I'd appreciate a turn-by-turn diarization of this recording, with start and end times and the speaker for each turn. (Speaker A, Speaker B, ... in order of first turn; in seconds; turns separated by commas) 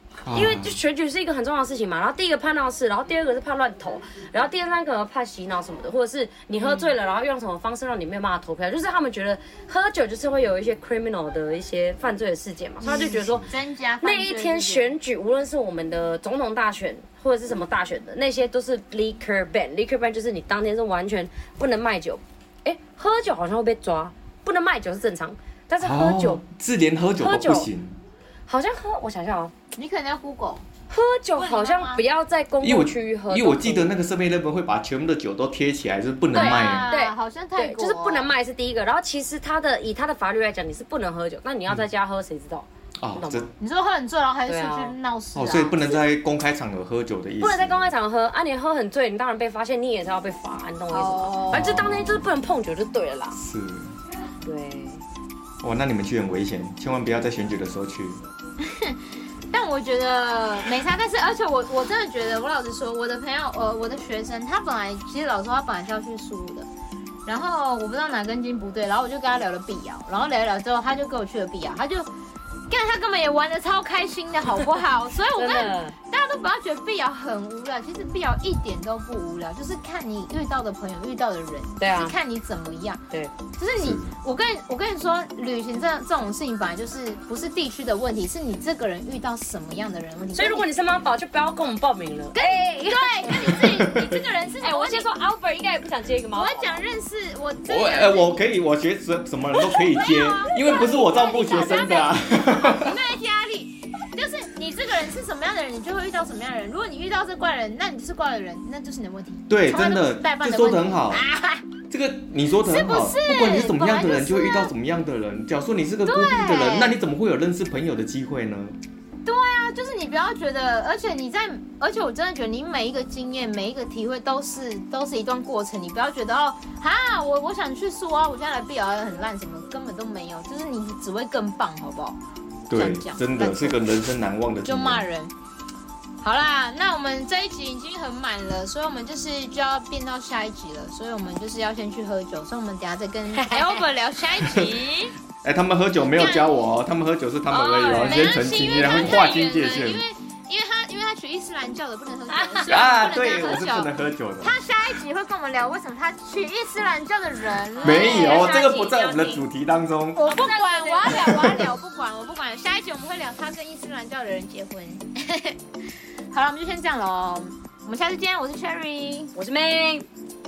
Speaker A: 0.2-0.8, Speaker B: 0.3-13.5, Speaker C: 6.6-6.9, Speaker C: 12.8-14.9, Speaker A: 12.9-13.3, Speaker B: 14.0-26.4, Speaker A: 25.8-28.0, Speaker B: 27.2-27.7, Speaker B: 28.5-29.5, Speaker C: 29.7-30.6, Speaker B: 30.9-33.9, Speaker C: 31.4-32.0, Speaker A: 32.6-36.9, Speaker B: 36.3-43.5, Speaker C: 36.3-38.3, Speaker A: 43.0-43.5, Speaker C: 43.6-46.0, Speaker B: 44.5-44.9, Speaker A: 45.3-47.9, Speaker B: 47.4-53.4, Speaker C: 50.9-51.8, Speaker A: 51.5-52.2, Speaker A: 53.3-53.9, Speaker B: 54.4-55.0, Speaker A: 55.6-58.2, Speaker C: 58.6-59.0, Speaker C: 59.5-66.7, Speaker C: 67.2-72.1, Speaker C: 72.7-83.0, Speaker B: 75.3-76.0, Speaker B: 81.8-82.2, Speaker C: 83.5-90.7, Speaker A: 83.8-84.1, Speaker B: 90.3-93.7, Speaker C: 92.3-95.1, Speaker A: 93.9-94.2, Speaker B: 94.6-96.8, Speaker C: 96.3-98.4, Speaker A: 97.7-103.0, Speaker C: 99.6-111.7, Speaker A: 109.5-111.2, Speaker A: 111.9-118.8, Speaker C: 112.6-114.7, Speaker C: 116.0-117.0, Speaker C: 119.2-132.2, Speaker A: 132.7-135.1, Speaker C: 132.7-133.8, Speaker C: 134.6-135.3, Speaker C: 136.2-145.1, Speaker B: 143.3-143.8, Speaker A: 145.4-150.0, Speaker C: 146.2-146.5, Speaker B: 147.5-149.2, Speaker C: 147.8-158.7, Speaker B: 152.3-152.7, Speaker A: 152.7-154.6, Speaker B: 157.7-159.4, Speaker A: 157.8-160.4, Speaker C: 160.1-165.6, Speaker B: 160.2-161.7, Speaker A: 161.2-161.6, Speaker C: 166.3-169.3, Speaker B: 169.3-170.1